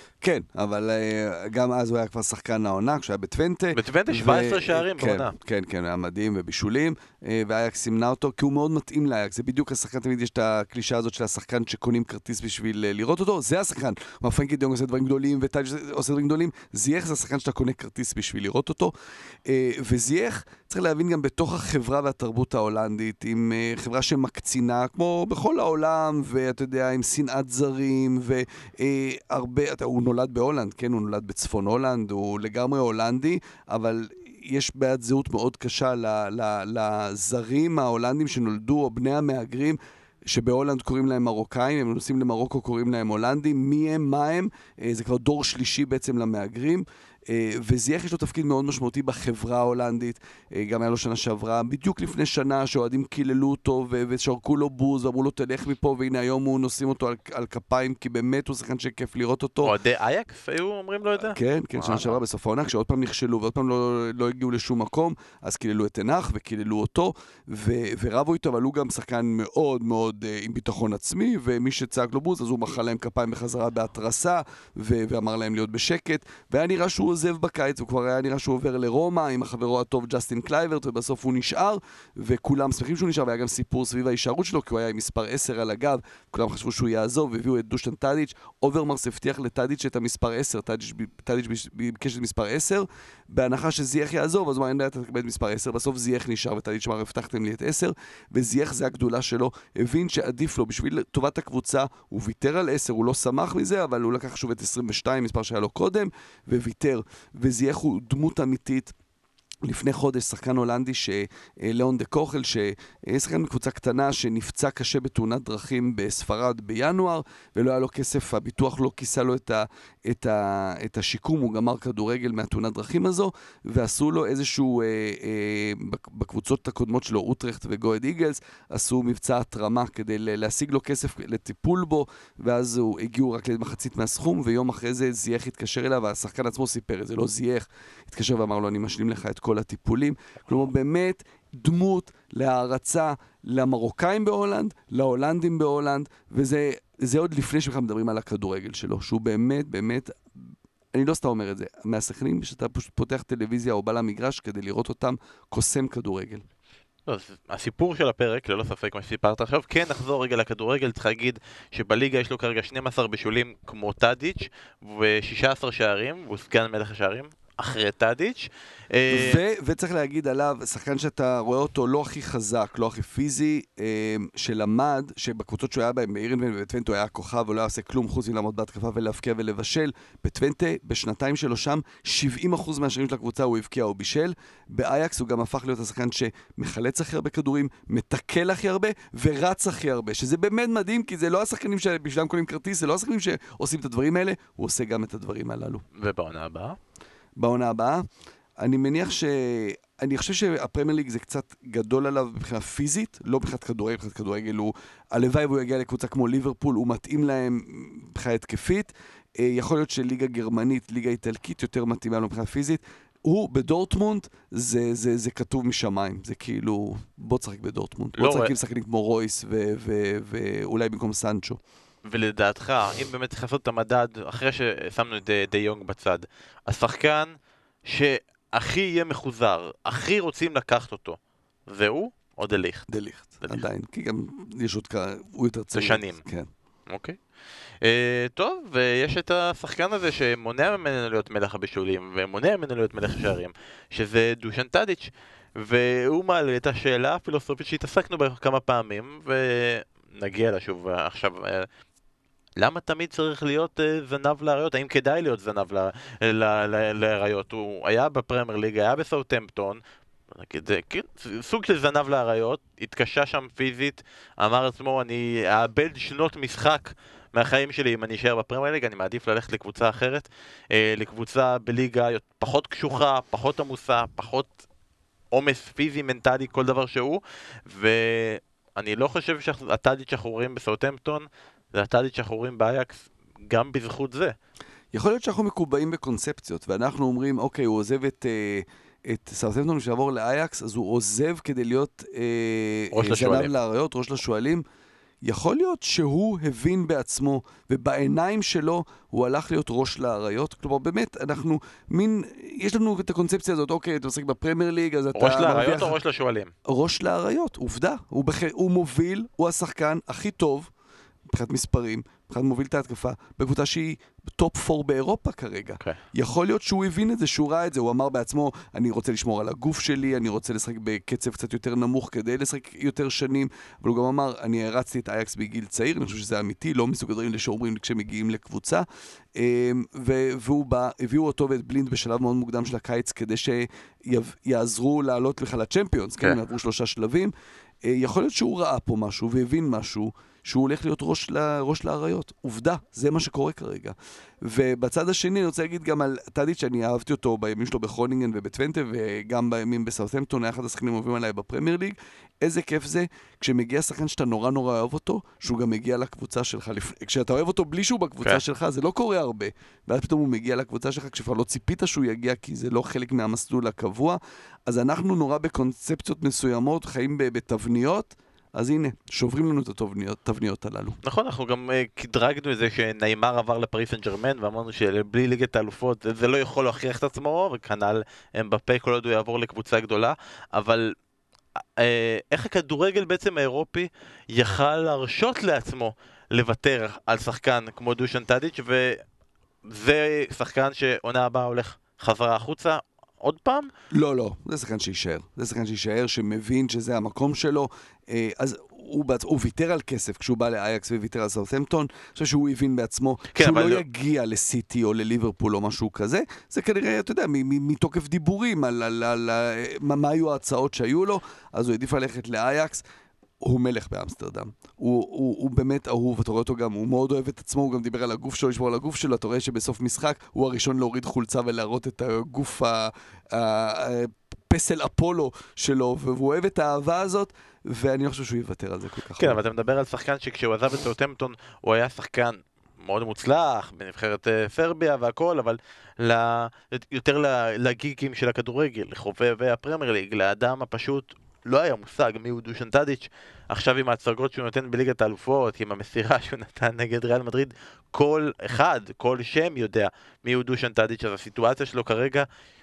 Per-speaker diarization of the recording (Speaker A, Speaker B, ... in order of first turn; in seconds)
Speaker A: 0.2-18.9, 19.4-39.8, 40.3-59.7, 61.3-108.9, 109.6-156.4, 169.1-195.8, 197.4-198.0, 198.6-221.6, 232.9-236.5, 284.9-294.6, 295.2-306.0, 306.6-310.7, 311.3-371.0, 393.9-412.8, 413.4-429.4
Speaker B: 3.7-5.3, 59.6-62.2, 157.1-169.4, 195.9-196.8, 218.2-218.5, 222.0-227.3, 227.8-232.9, 235.7-236.2, 236.9-237.2, 237.8-251.7, 252.6-259.8, 260.3-274.6, 275.3-284.3, 292.9-293.5, 305.1-306.5, 371.0-380.9, 381.8-389.0, 389.6-393.7, 403.3-403.8, 429.2-452.2